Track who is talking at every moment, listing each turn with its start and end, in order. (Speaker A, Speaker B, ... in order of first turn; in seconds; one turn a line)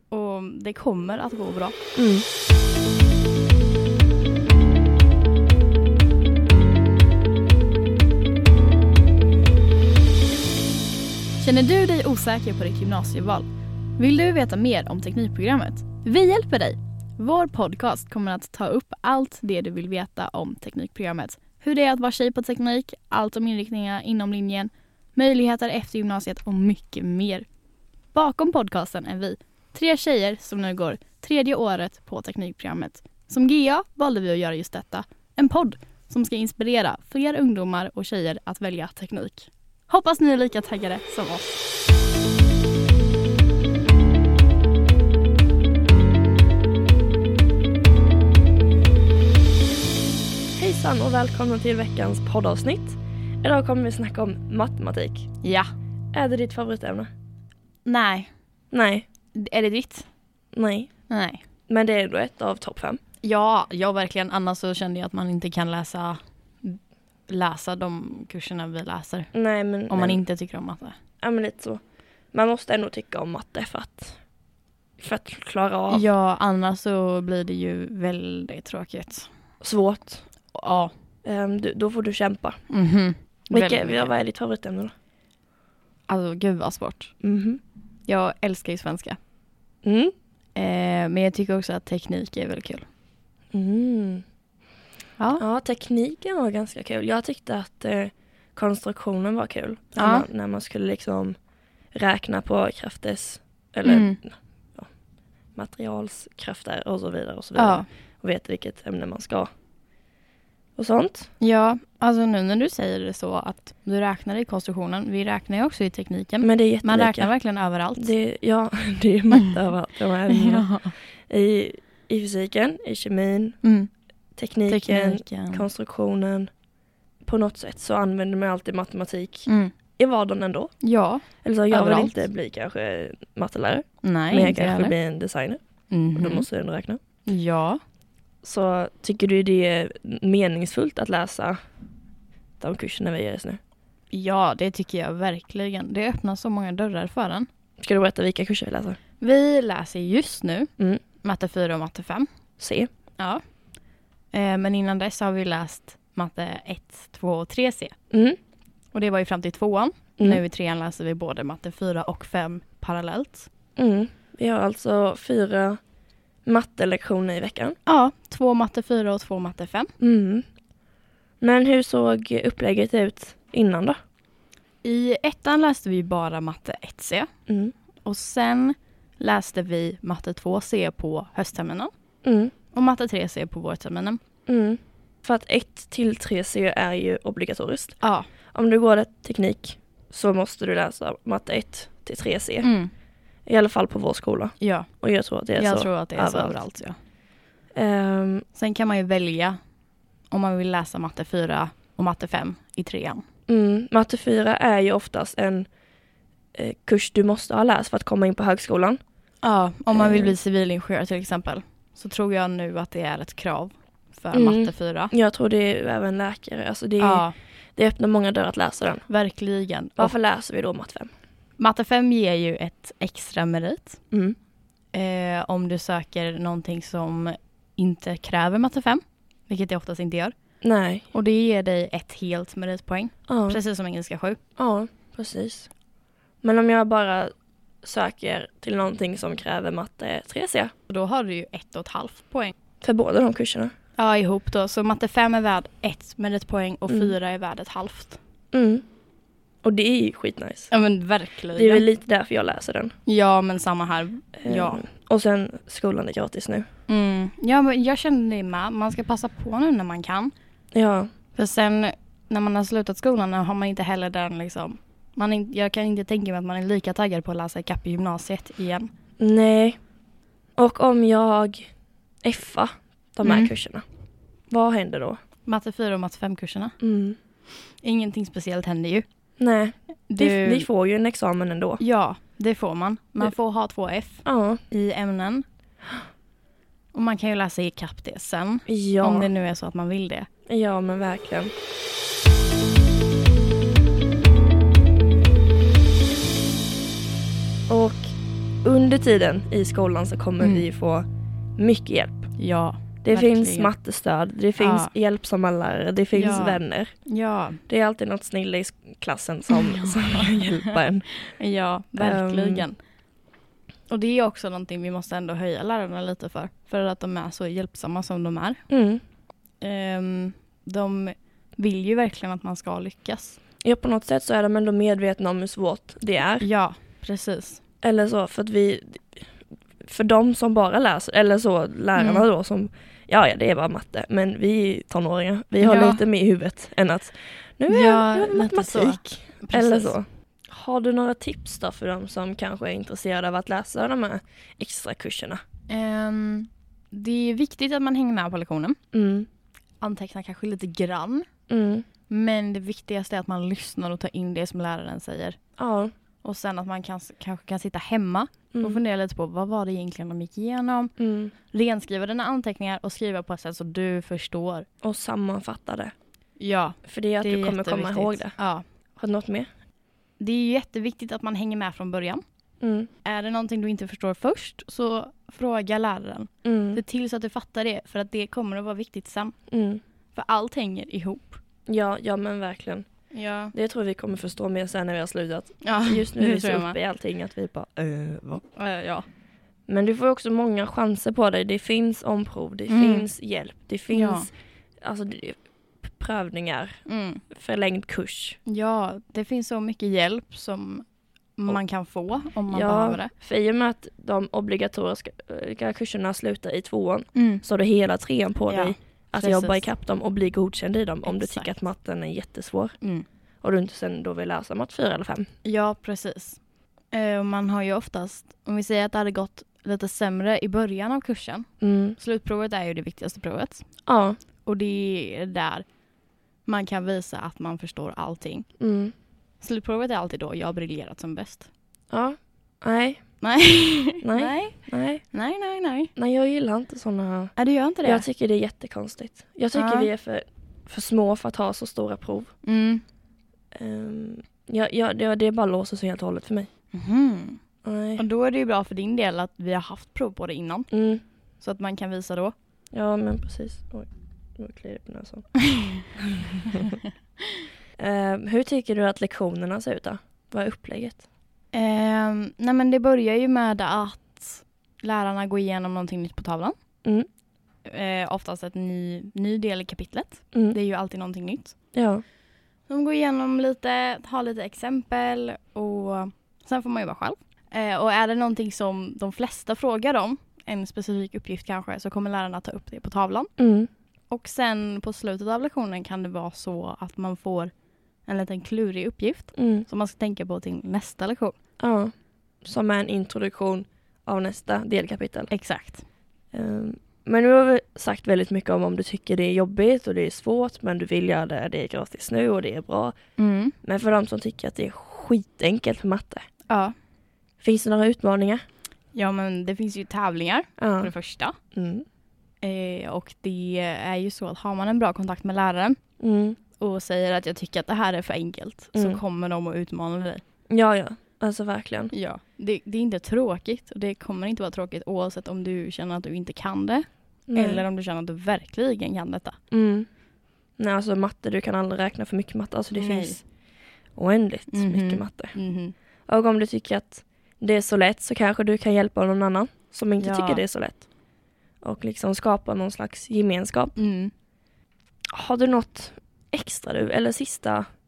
Speaker A: 0.1-1.8
Speaker B: 1.9-2.2
Speaker A: 11.4-13.4
Speaker A: 14.0-27.4
Speaker A: 28.1-41.6
Speaker B: 50.5-55.3
Speaker A: 55.4-55.7
Speaker B: 56.1-57.1
Speaker A: 57.9-58.3
Speaker B: 58.7-59.0
Speaker A: 59.3-60.1
Speaker B: 60.5-60.9
Speaker A: 61.1-61.4
Speaker B: 61.7-63.0
Speaker A: 63.2-69.3
Speaker B: 69.3-70.2
Speaker A: 69.9-71.0
Speaker B: 71.2-71.8
Speaker B: 72.3-74.2
Speaker B: 75.0-76.1
Speaker A: 75.9-79.3
Speaker B: 79.6-80.2
Speaker A: 80.5-80.9
Speaker B: 81.2-82.6
Speaker A: 82.7-84.1
Speaker B: 83.5-84.9
Speaker A: 86.1-87.1
Speaker B: 87.2-87.6
Speaker A: 88.1-89.2
Speaker B: 89.8-90.1
Speaker A: 90.5-92.8
Speaker B: 93.5-94.2
Speaker A: 95.2-95.4
Speaker B: 95.4-101.3
Speaker A: 100.0-100.2
Speaker B: 101.9-104.9
Speaker A: 103.8-104.2
Speaker B: 105.5-109.5
Speaker A: 107.5-107.9
Speaker B: 110.8-111.3
Speaker A: 111.4-118.1
Speaker B: 116.4-117.3
Speaker B: 117.9-123.6
Speaker A: 120.3-120.9
Speaker A: 123.6-123.9
Speaker B: 124.3-126.5
Speaker A: 124.7-125.6
Speaker B: 127.2-130.7
Speaker A: 129.4-129.7
Speaker A: 130.8-132.1
Speaker B: 131.4-135.6
Speaker A: 134.0-134.9
Speaker A: 135.9-136.5
Speaker B: 136.2-137.0
Speaker A: 137.2-137.8
Speaker B: 138.4-141.6
Speaker B: 142.6-143.6
Speaker A: 144.1-147.5
Speaker B: 147.8-149.0
Speaker A: 149.2-150.7
Speaker A: 151.2-152.3
Speaker B: 152.6-152.9
Speaker A: 154.3-157.9
Speaker B: 158.1-158.4
Speaker A: 158.9-163.5
Speaker B: 163.8-165.8
Speaker B: 166.4-167.8
Speaker A: 167.8-169.9
Speaker B: 170.0-170.4
Speaker B: 171.4-174.0
Speaker A: 174.8-177.3
Speaker B: 177.5-177.7
Speaker A: 178.0-181.9
Speaker B: 182.2-182.5
Speaker A: 182.7-184.2
Speaker B: 184.5-188.0
Speaker A: 188.0-188.3
Speaker B: 188.5-192.7
Speaker A: 192.6-192.9
Speaker B: 193.4-196.6
Speaker A: 194.6-194.9
Speaker A: 195.6-197.0
Speaker B: 197.7-198.4
Speaker A: 198.5-199.6
Speaker A: 200.3-203.2
Speaker B: 203.5-205.7
Speaker B: 206.5-209.0
Speaker A: 209.4-215.1
Speaker B: 209.9-210.4
Speaker B: 214.3-219.1
Speaker A: 217.0-217.3
Speaker A: 219.1-220.1
Speaker B: 220.0-221.1
Speaker A: 221.6-224.0
Speaker A: 224.9-230.3
Speaker B: 230.6-231.1
Speaker A: 231.1-234.4
Speaker B: 233.3-233.6
Speaker B: 234.6-235.7
Speaker B: 236.4-240.7
Speaker A: 240.9-242.5
Speaker B: 242.8-243.7
Speaker A: 244.0-248.2
Speaker B: 246.9-247.1
Speaker B: 248.5-248.8
Speaker B: 249.6-250.7
Speaker A: 250.7-251.8
Speaker B: 251.5-252.9
Speaker A: 253.1-254.8
Speaker B: 254.4-256.6
Speaker A: 256.9-260.3
Speaker B: 260.7-261.1
Speaker A: 261.3-268.9
Speaker B: 269.2-269.8
Speaker B: 270.6-271.7
Speaker B: 272.2-273.8
Speaker A: 273.2-273.5
Speaker B: 274.5-275.2
Speaker A: 275.4-276.7
Speaker B: 276.8-277.2
Speaker A: 277.8-279.0
Speaker B: 279.4-281.8
Speaker A: 280.1-280.7
Speaker A: 281.8-285.4
Speaker B: 284.2-284.6
Speaker A: 286.9-290.3
Speaker B: 288.7-289.3
Speaker B: 290.5-291.5
Speaker B: 297.7-301.1
Speaker A: 300.4-300.6
Speaker B: 301.6-302.3
Speaker A: 302.4-303.7
Speaker B: 303.0-306.9
Speaker A: 304.6-304.9
Speaker A: 306.1-307.6
Speaker B: 307.7-311.2
Speaker A: 309.5-312.8
Speaker B: 312.0-312.6
Speaker A: 313.9-318.6
Speaker B: 318.7-319.0
Speaker A: 319.6-323.4
Speaker B: 323.6-326.5
Speaker A: 326.4-327.6
Speaker B: 327.8-329.1
Speaker B: 329.8-345.4
Speaker A: 331.9-332.2
Speaker A: 335.6-336.0
Speaker A: 337.7-339.9
Speaker A: 345.7-348.8
Speaker B: 348.9-349.3
Speaker A: 349.8-351.3
Speaker B: 351.5-351.9
Speaker A: 352.1-355.4
Speaker B: 355.6-355.9
Speaker A: 356.2-360.9
Speaker B: 358.5-358.8
Speaker B: 361.0-361.3
Speaker A: 361.5-364.6
Speaker B: 364.8-365.9
Speaker A: 366.4-368.6
Speaker B: 366.8-368.3
Speaker B: 369.0-369.5
Speaker A: 370.2-372.2
Speaker B: 372.6-372.9
Speaker A: 373.0-379.3
Speaker B: 376.4-376.8
Speaker B: 379.5-379.8
Speaker A: 380.1-381.4
Speaker B: 381.7-382.9
Speaker A: 383.1-383.5
Speaker B: 383.5-388.4
Speaker A: 385.6-386.8
Speaker A: 388.5-389.1
Speaker B: 389.7-394.3
Speaker A: 392.7-393.1
Speaker A: 393.9-394.3
Speaker B: 394.8-398.4
Speaker A: 396.9-397.2
Speaker A: 398.4-403.1
Speaker B: 402.5-412.8
Speaker A: 407.1-407.4
Speaker A: 408.5-409.6
Speaker A: 411.0-411.5
Speaker B: 413.4-415.3
Speaker A: 415.4-416.4
Speaker A: 416.9-423.6
Speaker B: 421.6-422.0
Speaker B: 423.9-424.2
Speaker A: 424.4-425.6
Speaker A: 426.4-428.5
Speaker B: 428.6-428.9
Speaker A: 429.4-431.5
Speaker B: 431.9-433.2
Speaker A: 433.2-435.9
Speaker B: 434.0-435.0
Speaker B: 435.9-442.3
Speaker A: 437.4-438.1
Speaker A: 439.5-439.9
Speaker A: 442.4-442.8
Speaker B: 443.5-446.5
Speaker A: 446.7-447.4
Speaker B: 447.6-448.0
Speaker A: 448.0-450.7
Speaker B: 450.7-451.0
Speaker A: 451.4-452.3
Speaker B: 452.7-456.8
Speaker B: 457.8-461.1
Speaker A: 461.5-466.6
Speaker A: 467.6-471.5
Speaker B: 471.7-472.0
Speaker A: 472.7-483.3
Speaker B: 483.4-483.7
Speaker A: 484.1-487.5
Speaker A: 488.0-491.4
Speaker B: 489.3-489.6
Speaker B: 491.6-491.9
Speaker B: 492.4-495.3
Speaker A: 495.3-495.8
Speaker B: 496.3-502.9
Speaker A: 503.2-503.5
Speaker B: 503.6-506.2
Speaker A: 506.5-506.7
Speaker B: 507.4-508.4
Speaker A: 508.9-511.4
Speaker B: 510.6-510.9
Speaker B: 511.5-511.8
Speaker A: 512.4-515.8
Speaker B: 516.0-516.4
Speaker A: 516.6-520.2
Speaker B: 518.7-519.0
Speaker B: 520.5-521.9
Speaker A: 521.9-529.4
Speaker B: 527.3-527.6
Speaker B: 529.5-529.9
Speaker B: 530.6-533.3
Speaker A: 532.7-533.2
Speaker B: 534.0-535.4
Speaker A: 534.5-535.7
Speaker B: 536.1-540.9
Speaker A: 540.0-540.4
Speaker B: 541.6-543.8
Speaker A: 543.8-544.1
Speaker B: 545.1-547.6